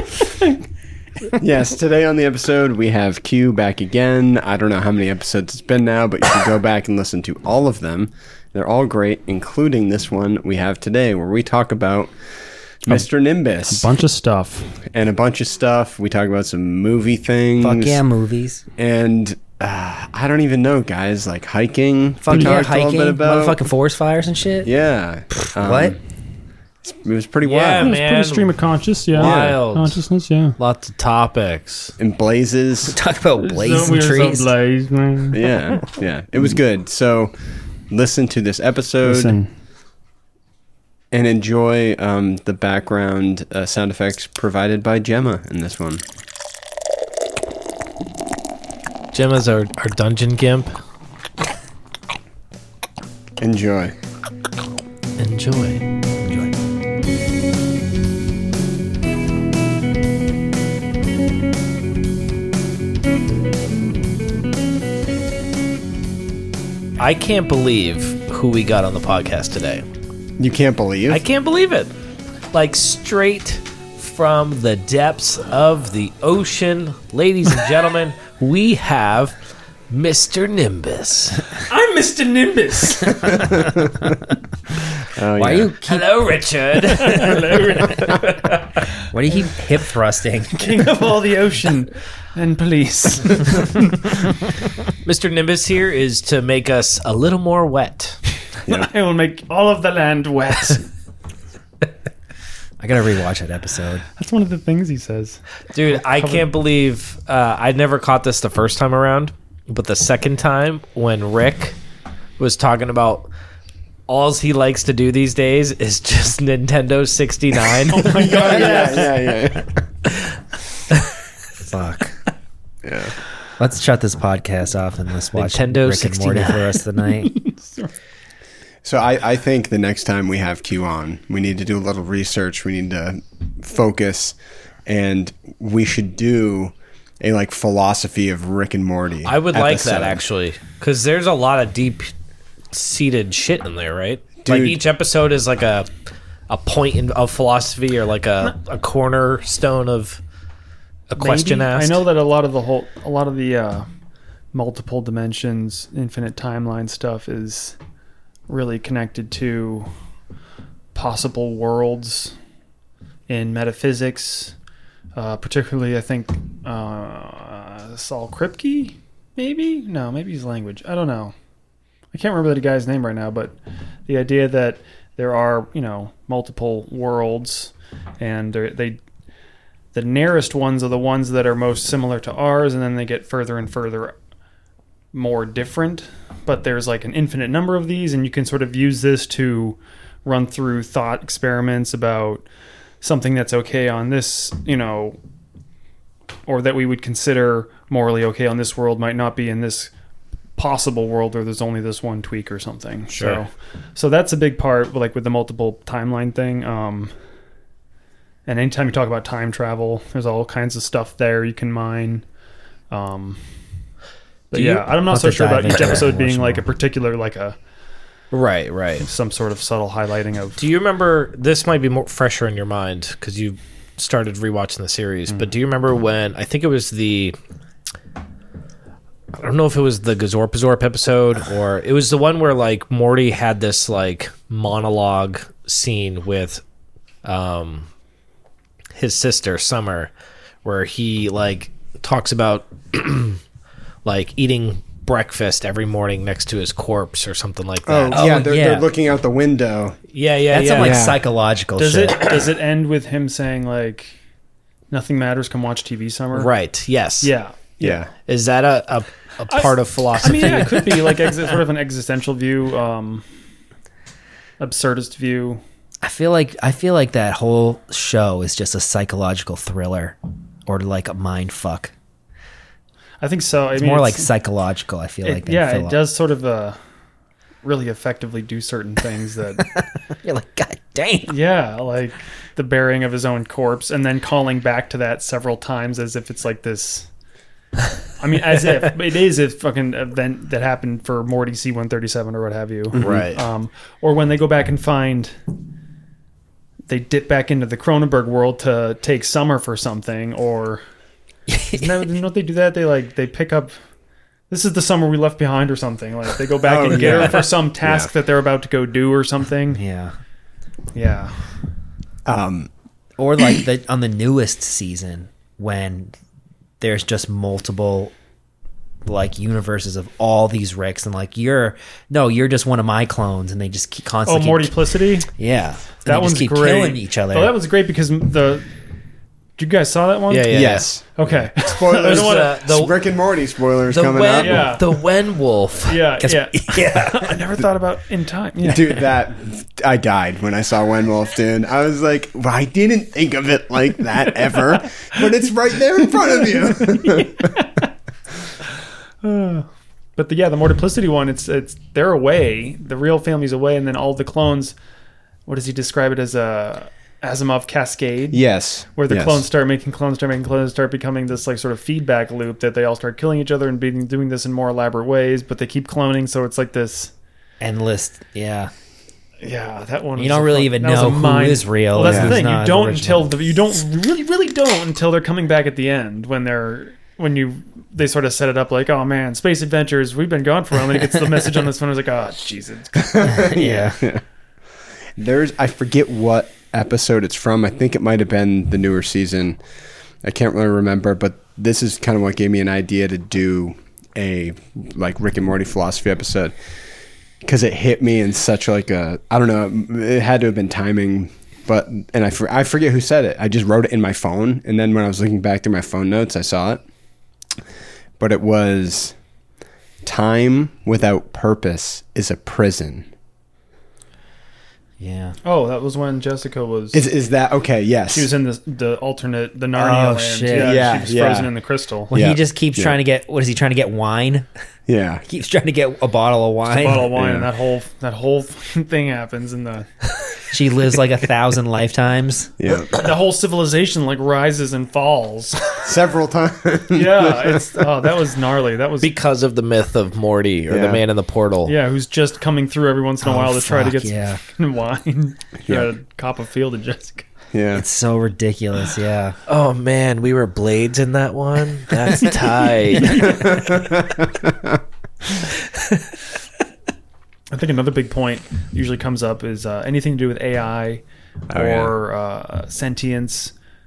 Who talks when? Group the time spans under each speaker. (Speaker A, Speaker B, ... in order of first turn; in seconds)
Speaker A: 1.4-12.1, 12.8-13.9, 14.8-18.0, 18.8-23.6, 24.6-26.0, 26.8-28.0, 29.1-29.6, 32.0-33.0, 35.3-37.3, 37.9-39.4, 41.1-46.0, 53.4-53.9, 70.4-71.2, 83.4-84.1, 85.1-85.7, 118.0-119.8, 122.8-123.1, 128.8-140.2, 144.4-144.8, 247.8-250.0, 250.7-251.2, 257.8-258.1, 292.9-293.3, 306.6-308.1, 312.2-312.7, 330.5-331.0, 331.6-334.7, 338.6-347.6, 358.3-359.4, 372.0-372.4, 382.9-384.2, 385.2-389.6, 390.2-396.5, 397.4-406.8, 408.2-409.1, 410.0-413.1, 416.9-418.3, 420.5-421.5, 422.1-423.0, 424.9-425.2, 427.1-427.5, 432.6-432.9, 435.8-437.9, 440.7-441.0, 447.5-447.8, 453.3-454.8, 461.5-461.9
Speaker B: 13.7-14.7, 22.3-22.6, 27.8-30.6, 33.4-35.5, 39.0-39.5, 81.7-83.7, 87.0-88.2, 90.5-94.2, 98.7-100.8, 104.2-105.4, 106.2-106.4, 117.9-119.2, 127.0-127.9, 151.2-153.8, 154.5-157.8, 158.5-159.9, 160.9-162.3, 163.3-164.5, 165.1-171.3, 172.1-173.6, 174.1-179.0, 179.9-184.2, 185.1-192.5, 193.0-195.2, 196.5-199.9, 200.6-207.1, 208.4-212.2, 212.9-213.4, 214.5-217.6, 219.0-220.6, 251.8-254.1, 254.9-256.5, 257.2-258.0, 259.5-263.2, 264.6-265.6, 273.2-274.3, 275.2-276.8, 277.6-279.7, 281.3-287.1, 288.2-295.3, 296.9-300.8, 301.7-303.7, 304.5-309.8, 310.9-311.3, 324.2-325.3, 326.0-328.7, 329.6-332.6, 334.4-334.8, 335.9-339.0, 346.1-347.9, 349.2-354.7, 355.5-358.4, 358.9-367.1, 369.4-383.8, 415.4-417.1, 418.1-422.1, 426.7-429.9, 432.9-435.7, 436.9-439.1, 441.6-447.3, 452.9-453.4, 457.5-463.5
Speaker C: 17.6-18.6, 22.2-24.7, 25.3-25.9, 32.9-34.5, 56.2-56.5, 85.3-86.0, 89.1-90.8, 102.8-104.0, 121.6-122.2, 123.6-127.3, 214.5-216.6, 248.1-248.9, 250.5-252.2, 266.0-271.9, 273.8-276.0, 279.7-281.3, 301.5-301.9, 309.7-310.1, 313.2-316.1, 316.8-318.1, 319.1-324.8, 325.4-327.5, 336.2-337.3, 367.6-368.7, 370.2-373.4, 383.3-384.0, 415.0-415.4, 419.7-420.8, 422.1-424.5, 425.3-427.1, 430.5-432.5, 443.2-444.4, 447.7-449.3
Speaker D: 27.4-28.5, 29.1-30.0, 30.6-31.9, 49.1-50.7, 55.2-55.8, 67.0-69.8, 71.1-71.9, 72.5-79.3, 79.9-81.6, 85.8-88.8, 95.0-98.2, 105.7-111.8, 112.4-113.3, 114.1-118.5, 125.3-126.8, 139.2-142.1, 142.7-145.9, 146.5-150.2, 151.1-152.0, 203.1-203.4, 218.3-219.1, 220.6-227.3, 229.3-236.6, 237.2-237.9, 238.9-240.1, 240.6-243.4, 244.0-248.3, 250.1-251.0, 256.3-257.3, 258.1-261.2, 293.0-293.4, 330.3-330.9, 331.9-332.9, 333.9-336.0, 439.0-441.7, 449.5-453.5, 455.7-456.0